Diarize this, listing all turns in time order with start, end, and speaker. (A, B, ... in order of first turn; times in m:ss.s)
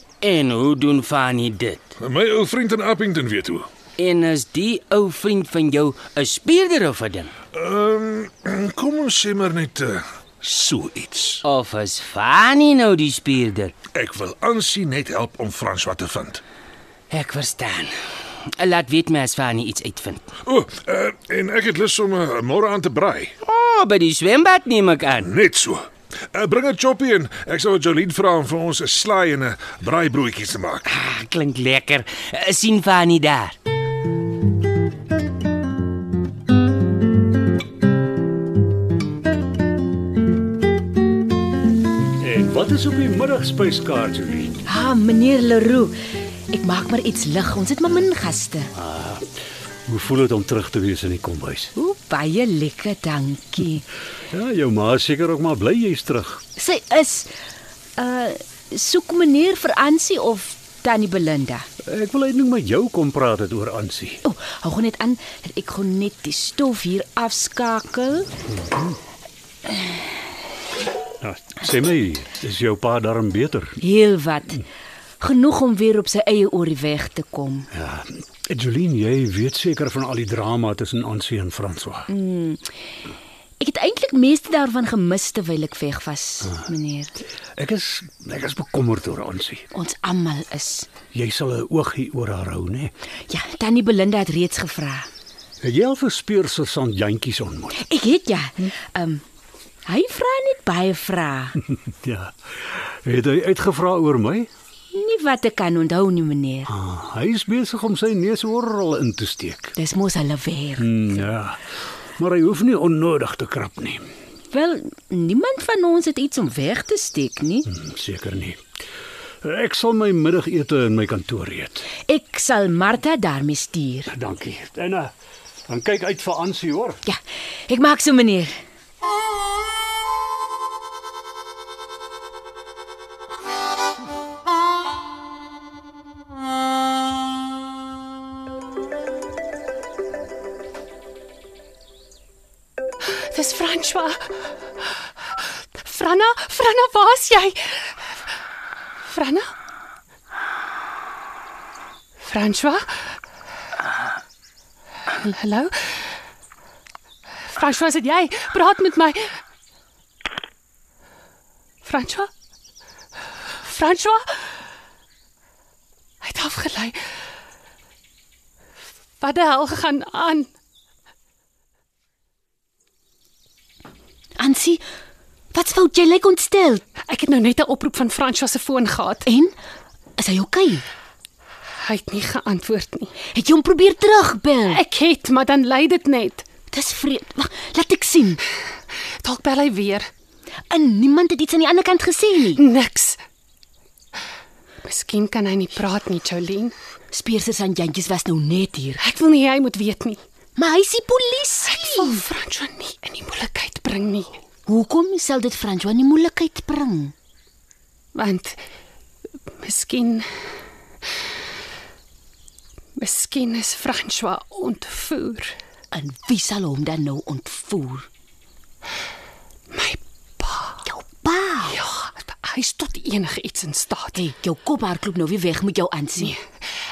0:00.2-0:01.9 A
0:02.0-0:03.7 B
0:04.0-0:07.3 A
0:07.5-0:11.4 B
0:11.4-0:13.7 A
0:13.9-0:16.4 B
0:17.1-0:17.9 A
0:18.6-0:20.2 A
0:20.5-0:23.4 B
0:23.4-0:25.3 A
0:25.2-0:30.9 B
0:30.9-0:33.6 A
0:42.2-0:44.6 C
0:44.6-0:46.0 D
0:46.5-0:48.7 D
0:48.8-0:49.3 C
0:49.9-0:51.7 C
0:51.8-0:53.9 D
0:54.3-0:56.4 C
0:56.6-0:57.3 D
0:58.0-1:01.7 D
1:01.8-1:04.2 C
1:04.2-1:08.3 D
1:08.5-1:09.0 C
1:11.2-1:13.8 C
1:13.8-1:14.6 D
1:15.2-1:17.7 D
1:17.7-1:22.1 C
1:22.1-1:22.7 D
1:23.6-1:27.2 D
1:27.6-1:29.7 C
1:29.7-1:30.9 D
1:31.1-1:32.9 C
1:33.3-1:35.1 D
1:35.6-1:37.8 C
1:37.8-1:39.2 D
1:39.9-1:41.6 D
1:41.7-1:44.5 C
1:44.9-1:46.7 D
1:46.7-1:49.8 C
1:49.8-1:50.9 D
1:50.8-1:54.1 C
1:54.5-1:57.7 D
1:57.7-1:58.6 C
1:59.4-2:01.9 C
2:02.1-2:04.1 D
2:04.1-2:05.1 C
2:05.7-2:07.0 C
2:07.0-2:08.6 D
2:23.4-2:24.2 E
2:25.9-2:27.6 E
2:29.1-2:29.4 E
2:32.3-2:32.8 E
2:35.2-2:35.7 E
2:37.6-2:39.2 E
2:41.8-2:42.3 E
2:43.7-2:44.2 E
2:46.2-2:47.0 E
2:49.2-2:50.5 E
2:54.4-2:54.8 D
2:55.5-2:56.8 D
2:57.1-2:59.2 E
2:59.3-2:59.6 D
3:00.2-3:00.8 D
3:01.8-3:03.1 E
3:03.3-3:04.8 D
3:04.8-3:06.4 E
3:06.7-3:08.4 D
3:09.2-3:10.0 E
3:10.7-3:12.6 D
3:12.6-3:13.2 E
3:14.9-3:16.7 E
3:17.1-3:19.0 D
3:19.0-3:20.2 E
3:20.6-3:22.2 D
3:21.9-3:24.3 E
3:24.7-3:27.1 D
3:28.2-3:28.6 E
3:29.6-3:30.2 E
3:33.0-3:35.5 E
3:35.9-3:38.1 D
3:39.8-3:40.7 E
3:40.8-3:41.8 D
3:41.7-3:44.2 E
3:44.2-3:46.4 D